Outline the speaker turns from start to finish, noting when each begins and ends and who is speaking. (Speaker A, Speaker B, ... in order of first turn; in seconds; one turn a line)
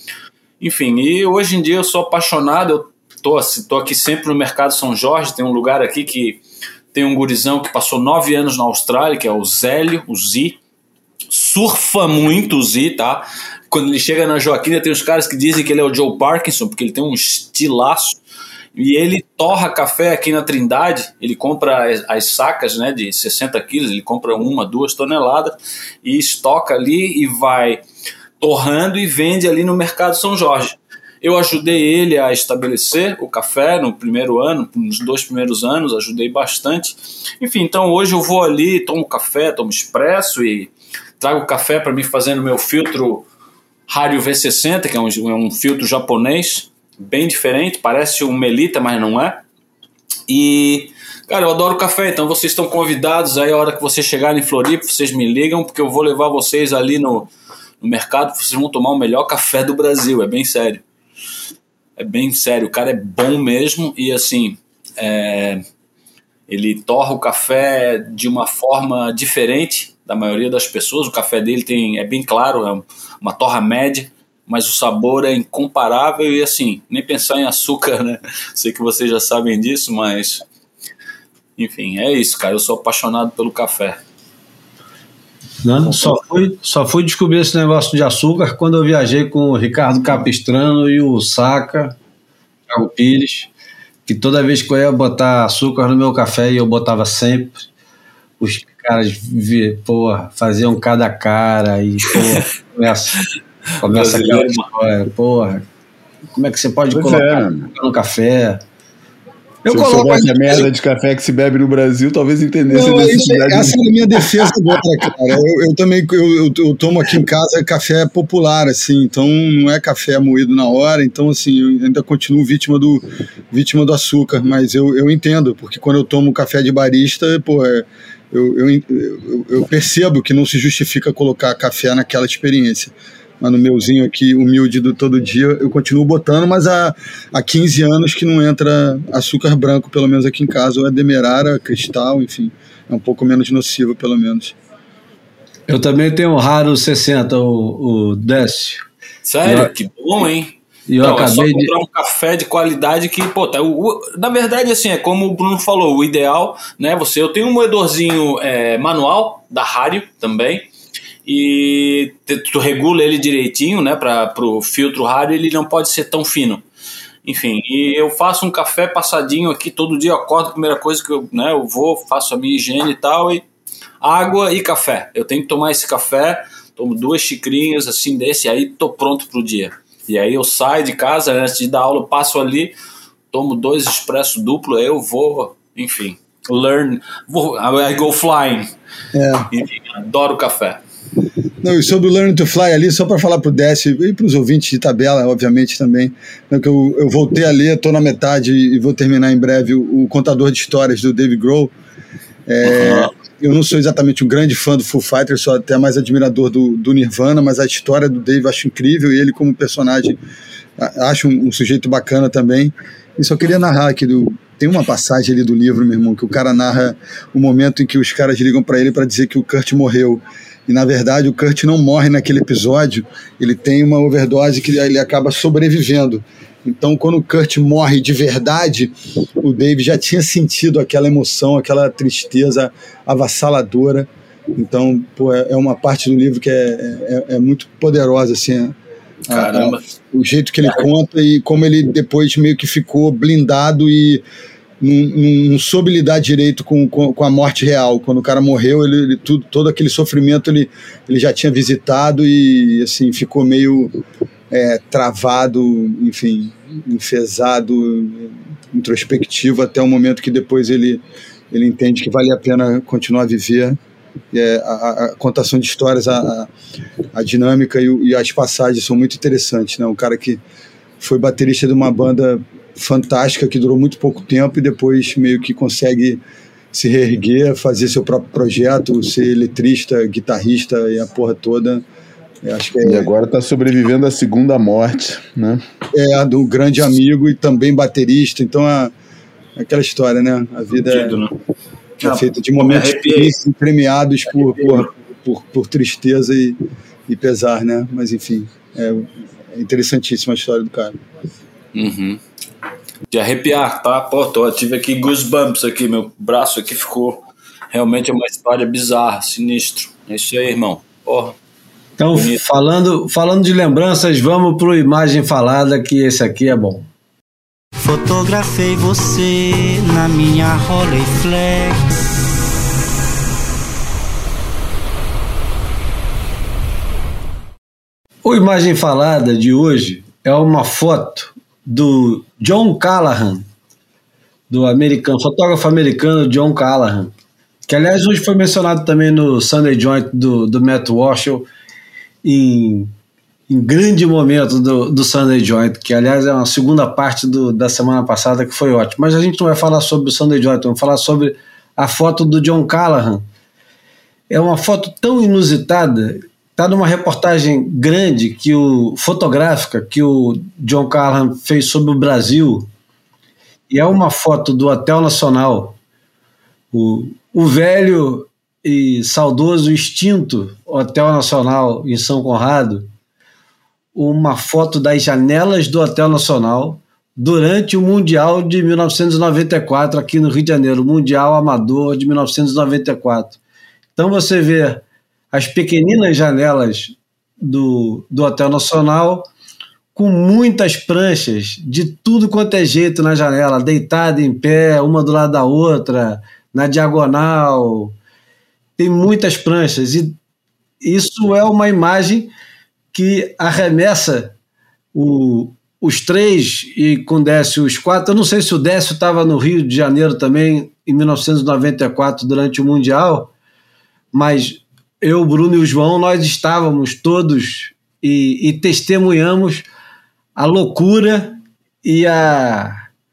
Speaker A: 0.6-6.4
Speaker A: 6.9-10.6
Speaker A: 11.3-18.2
Speaker A: 18.7-27.8
Speaker A: 28.4-43.2
Speaker A: 43.9-49.4
Speaker A: 50.3-60.8
Speaker A: 62.0-65.6
Speaker A: 66.5-80.4
Speaker A: 81.6-84.0
Speaker B: 85.6-92.0
Speaker A: 85.9-86.2
Speaker B: 92.7-93.5
Speaker B: 94.0-97.7
Speaker B: 98.4-103.2
Speaker B: 103.8-105.7
Speaker A: 103.9-104.7
Speaker B: 106.3-108.6
Speaker C: 106.9-107.7
Speaker B: 109.6-110.7
Speaker C: 109.7-113.8
Speaker D: 112.7-144.5
Speaker B: 145.7-148.8
Speaker A: 149.2-160.7
Speaker B: 149.4-149.7
Speaker B: 150.9-151.7
Speaker A: 161.2-166.6
Speaker A: 167.2-173.4
Speaker A: 174.0-182.7
Speaker A: 183.3-188.7
Speaker D: 189.1-189.5
Speaker A: 189.5-190.8
Speaker D: 191.6-201.7
Speaker D: 202.5-210.2
Speaker A: 202.6-203.1
Speaker D: 210.8-238.8
Speaker A: 239.3-239.8
Speaker D: 239.3-244.2
Speaker A: 240.6-240.9
Speaker D: 244.8-253.9
Speaker D: 254.5-263.8
Speaker D: 264.3-266.5
Speaker D: 267.1-270.4
Speaker D: 271.0-276.2
Speaker D: 276.7-281.8
Speaker D: 282.4-283.1
Speaker C: 282.8-285.6
Speaker D: 285.9-288.9
Speaker D: 289.6-291.2
Speaker A: 290.9-291.3
Speaker D: 292.0-301.0
Speaker A: 292.0-293.3
Speaker A: 294.3-294.9
Speaker A: 301.7-302.2
Speaker A: 303.1-311.4
Speaker B: 312.0-316.9
Speaker A: 312.1-312.4
Speaker E: 317.8-321.8
Speaker B: 328.2-333.4
Speaker B: 334.5-337.1
Speaker B: 337.7-341.5
Speaker B: 342.2-342.9
Speaker B: 343.5-353.2
Speaker B: 354.3-362.7
Speaker B: 363.7-365.8
Speaker B: 366.7-372.9
Speaker B: 373.9-383.4
Speaker B: 383.9-389.3
Speaker B: 389.9-397.9
Speaker B: 398.8-400.1
Speaker B: 400.8-402.3
Speaker B: 402.9-404.3
Speaker B: 404.9-413.3
Speaker B: 414.1-419.6
Speaker B: 420.4-422.7